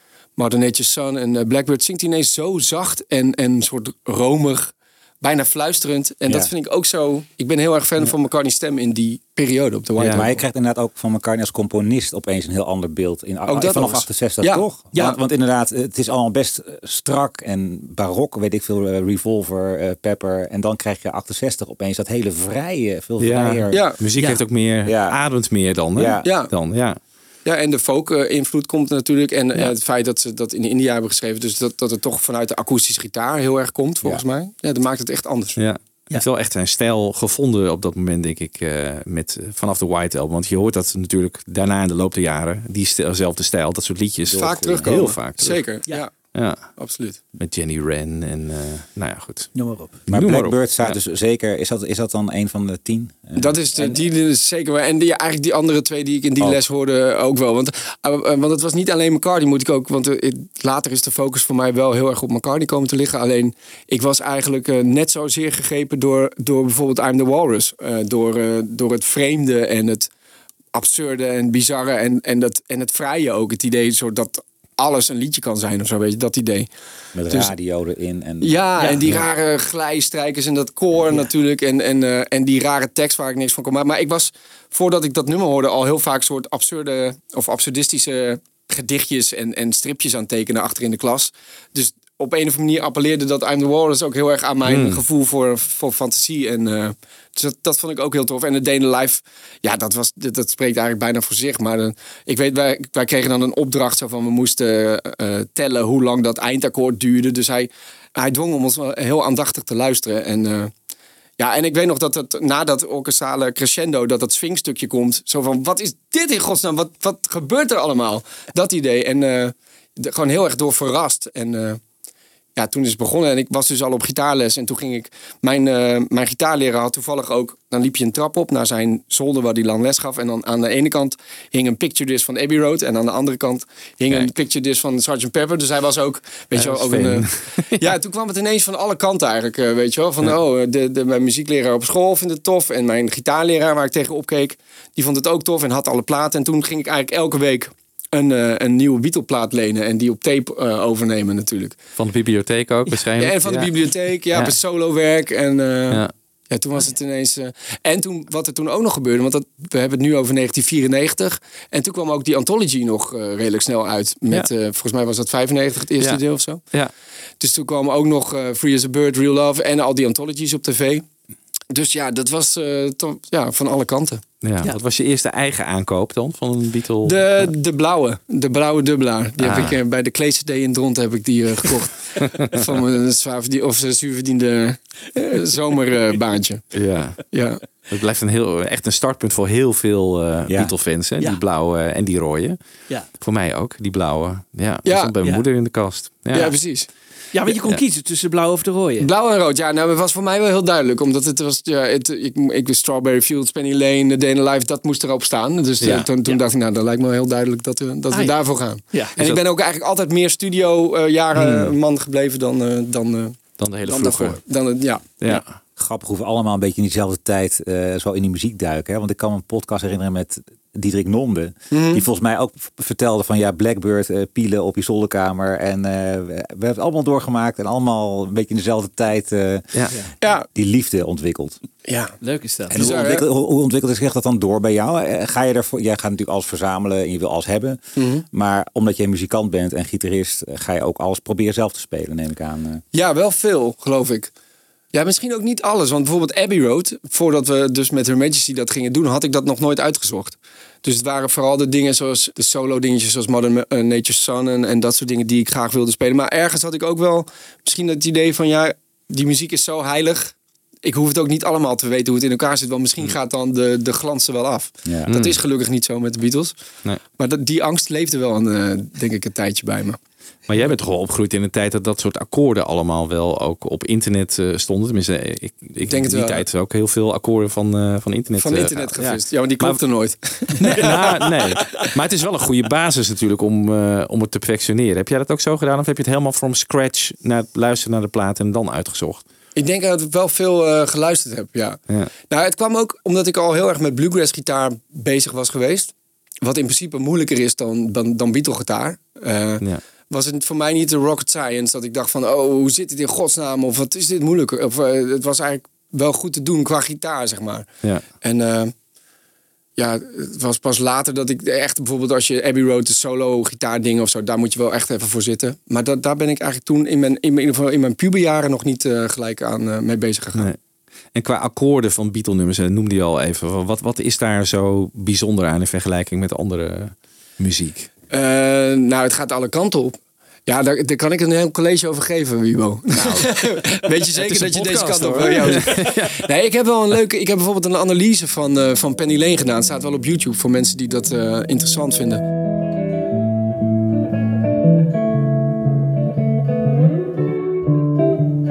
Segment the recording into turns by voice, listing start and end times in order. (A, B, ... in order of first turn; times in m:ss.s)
0:00.4-0:10.4 A
0:10.0-0:10.2 B
0:10.1-0:23.8 C
0:13.5-0:15.1 A
0:23.2-0:27.0 B
0:23.7-0:24.0 A
0:24.8-0:25.2 C
0:25.9-0:26.3 C
0:26.2-0:26.5 A
0:27.4-0:35.6 A
0:35.6-0:45.6 B
0:44.3-0:45.0 C
0:44.4-0:47.2 A
0:46.3-0:46.8 B
0:47.4-0:49.5 B
0:49.5-0:49.9 D
0:50.1-0:54.0 C
0:50.1-0:51.0 B
0:53.4-1:10.1 A
1:10.7-1:16.7 A
1:17.1-1:18.6 C
1:18.4-1:50.7 A
1:34.6-1:35.0 B
1:51.4-2:01.8 A
2:02.6-2:31.8 A
2:16.5-2:17.9 B
2:32.0-2:33.7 B
2:33.2-2:46.6 A
2:47.4-2:51.0 A
2:51.7-2:54.2 A
2:54.4-2:57.5 B
2:57.0-3:06.6 A
2:59.4-2:59.8 B
3:06.7-3:07.3 B
3:07.3-3:07.6 A
3:07.9-3:12.6 B
3:10.5-3:10.7 C
3:13.1-3:16.5 B
3:14.8-3:15.1 A
3:16.3-3:16.9 A
3:17.3-3:19.1 D
3:17.5-3:17.8 B
3:19.0-3:35.4 A
3:25.8-3:26.1 B
3:28.1-3:28.4 D
3:28.9-3:29.1 D
3:31.3-3:31.7 B
3:33.6-3:34.4 B
3:35.8-3:51.6 C
3:41.7-3:42.0 A
3:50.2-3:50.4 A
3:51.9-3:52.2 A
3:52.2-3:52.8 D
3:52.7-3:57.8 C
3:52.7-3:53.2 A
3:58.0-3:58.2 A
3:58.3-4:02.8 C
4:02.9-4:04.3 A
4:04.9-4:26.5 A
4:25.1-4:25.4 B
4:27.2-4:30.0 A
4:30.5-4:39.8 B
4:35.9-4:36.4 A
4:38.4-4:41.2 A
4:40.6-4:49.2 B
4:40.8-4:41.3 D
4:49.6-5:07.7 A
5:08.2-5:08.7 A
5:09.8-5:20.5 A
5:21.1-5:27.9 B
5:28.1-5:42.2 A
5:34.2-5:36.2 B